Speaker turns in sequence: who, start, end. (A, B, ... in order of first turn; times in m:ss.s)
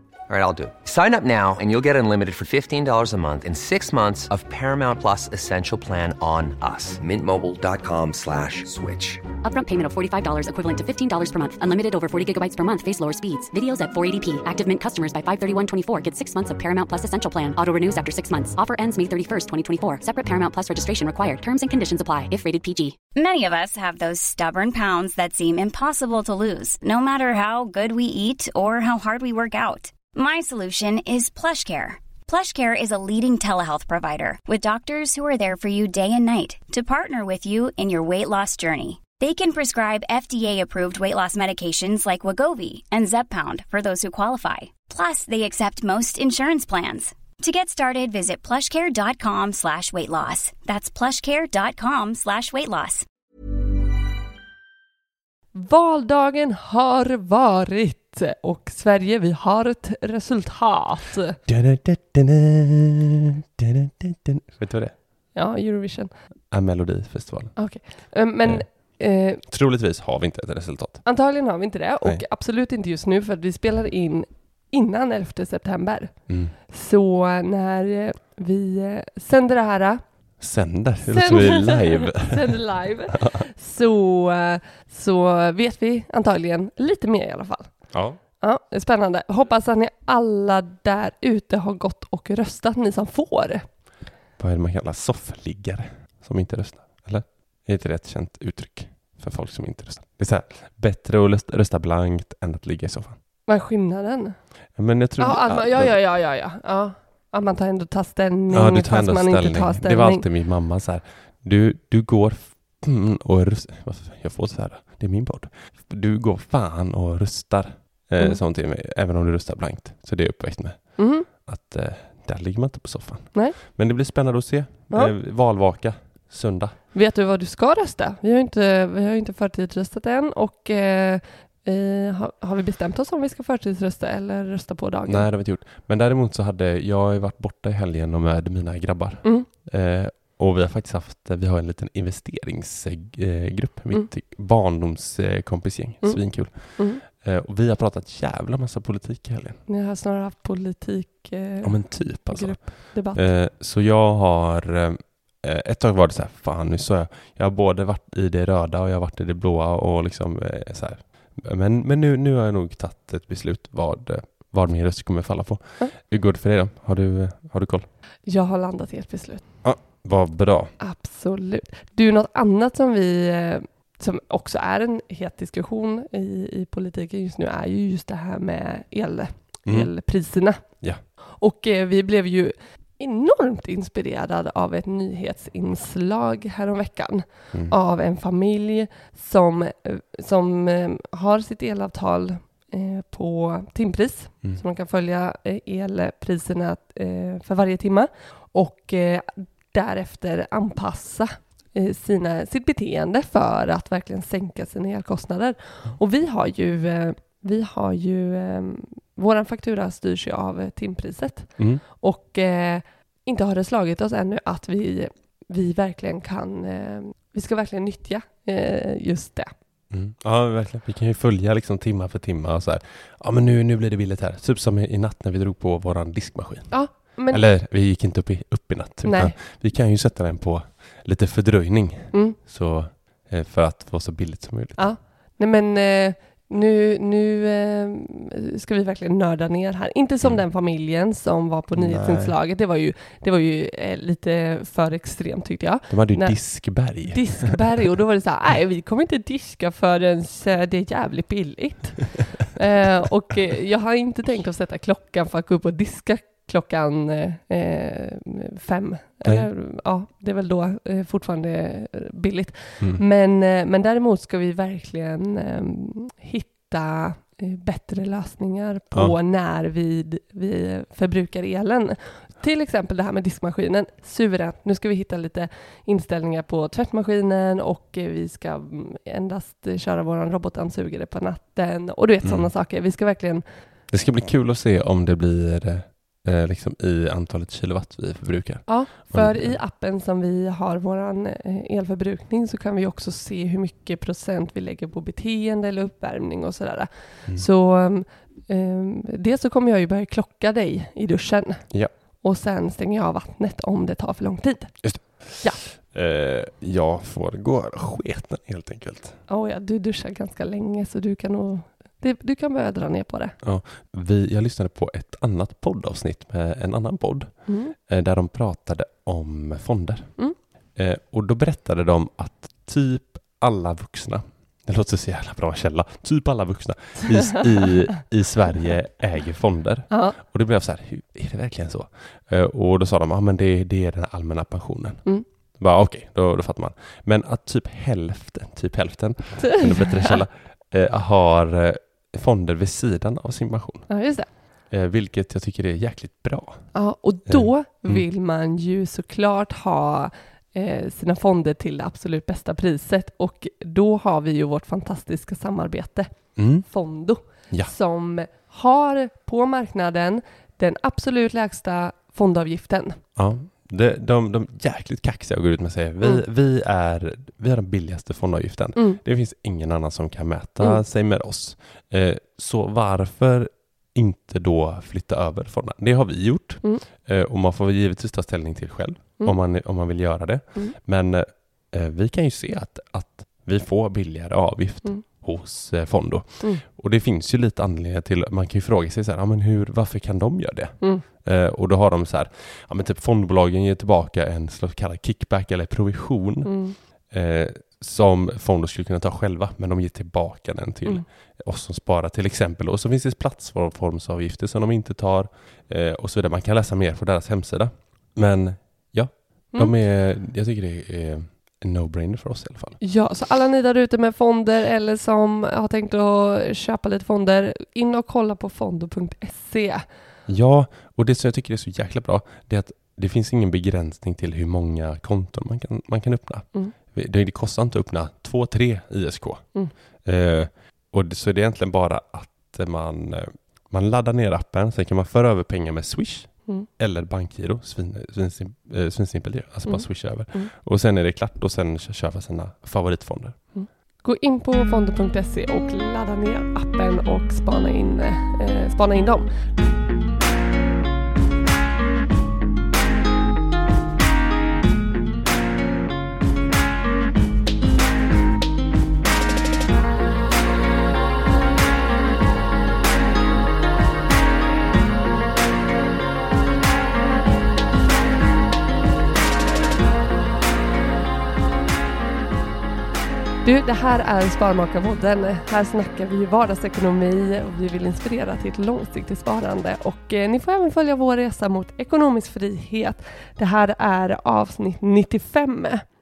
0:00.3-0:09.3 A
0:09.4-0:23.0 B
0:23.1-0:53.0 C
0:55.5-1:01.4 D
1:01.5-1:05.0 E
1:05.3-1:06.1 D
1:06.5-1:08.6 E
1:07.6-1:09.4 D
1:09.4-1:11.1 E
1:11.0-1:20.0 D
1:16.3-1:16.6 E
1:20.4-1:22.6 E
1:21.0-1:33.6 D
1:23.1-1:23.5 E
1:27.9-1:28.2 E
1:34.4-1:43.2 E
1:43.5-1:44.5 D
1:44.7-1:46.0 E
1:45.2-1:50.2 D
1:48.5-2:06.8 E
2:01.0-2:01.3 D
2:06.9-2:15.3 D
2:15.0-2:29.6 E
2:26.0-2:27.0 D
2:29.7-2:33.3 D
2:31.6-2:47.9 E
2:48.3-2:49.5 D
2:49.6-2:50.7 E
2:50.8-3:39.5 D
2:59.6-2:59.9 E
3:00.6-3:01.0 E
3:31.6-3:31.8 E
3:39.9-3:55.0 E
3:46.7-3:47.5 D
3:49.0-3:49.3 D
3:52.1-3:52.4 D
3:54.8-4:43.4 D
4:01.7-4:02.4 E
4:05.9-4:07.6 E
4:19.2-4:19.5 E
4:42.2-4:42.5 E
4:43.9-4:49.6 E
4:48.7-5:05.6 D
5:04.8-5:09.2 E
5:09.3-5:13.3 D
5:13.4-5:43.9 E
5:17.5-5:17.7 D
5:29.9-5:30.2 D
5:39.6-5:40.1 D
5:43.9-5:44.3 D
5:44.7-5:48.0 E
5:46.7-6:03.0 D
5:56.4-5:57.7 E
6:03.1-6:52.8 E
6:36.4-6:36.8 D
6:52.8-6:59.8 D
7:00.3-7:23.5 E
7:19.6-7:20.5 D
7:23.5-7:29.3 D
7:53.4-8:05.8 D